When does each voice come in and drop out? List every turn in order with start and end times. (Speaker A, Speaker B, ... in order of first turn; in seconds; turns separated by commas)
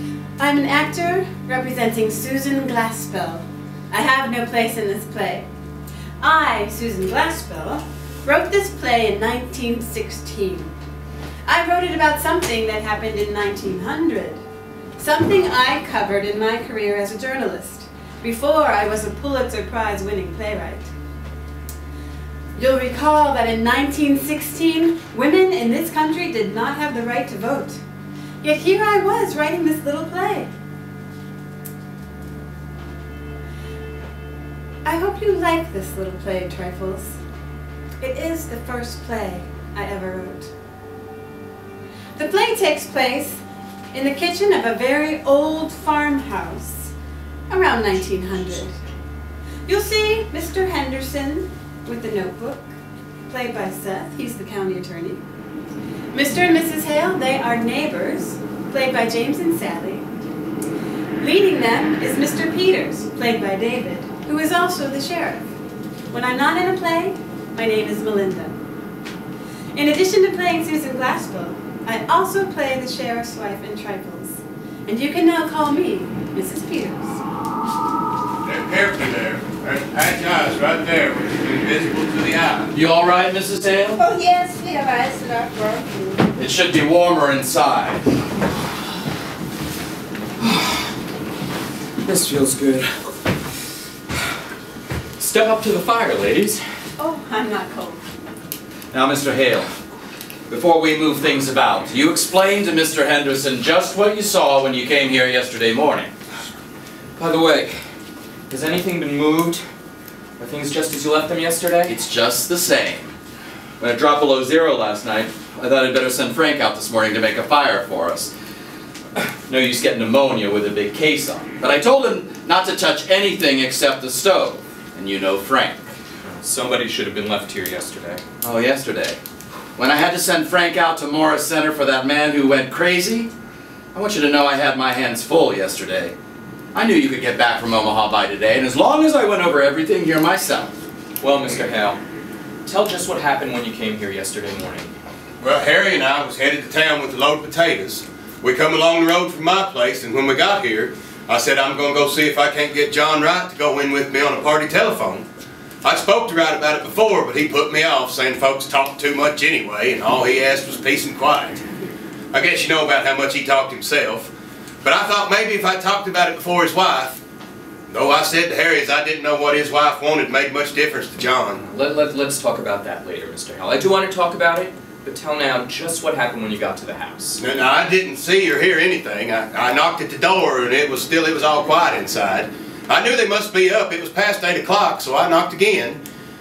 Speaker A: 0.4-5.5, Speaker A: 6.2-10.7, Speaker A: 11.4-14.4, Speaker A: 15.0-20.9, Speaker A: 22.5-27.8, Speaker A: 28.4-30.5, Speaker A: 34.8-37.2, Speaker A: 38.0-40.5, Speaker A: 42.1-43.4, Speaker A: 43.9-46.9, Speaker A: 47.5-48.7, Speaker A: 49.6-52.7, Speaker A: 53.3-55.2, Speaker A: 56.1-60.0, Speaker A: 61.2-65.5, Speaker A: 66.1-68.6, Speaker A: 69.7-77.2, Speaker B: 78.4-82.7, Speaker C: 82.7-84.0, Speaker D: 84.0-86.2, Speaker C: 86.3-88.0, Speaker E: 90.4-90.9, Speaker E: 92.0-93.1, Speaker E: 95.2-96.6, Speaker A: 97.0-98.0, Speaker C: 98.9-99.7, Speaker C: 100.5-106.1, Speaker E: 107.2-107.8, Speaker E: 108.5-109.6, Speaker E: 110.4-111.9, Speaker C: 111.9-113.2, Speaker C: 113.8-118.3, Speaker C: 119.5-125.8, Speaker E: 126.2-128.2, Speaker C: 128.4-129.2, Speaker C: 129.8-133.3, Speaker C: 133.9-136.1, Speaker C: 136.7-140.8, Speaker E: 141.2-142.0, Speaker E: 142.6-144.9, Speaker B: 145.4-155.2, Speaker B: 155.8-161.6, Speaker B: 162.3-164.3, Speaker B: 164.8-167.2, Speaker B: 167.9-171.6, Speaker E: 171.6-177.4, Speaker B: 177.4-186.0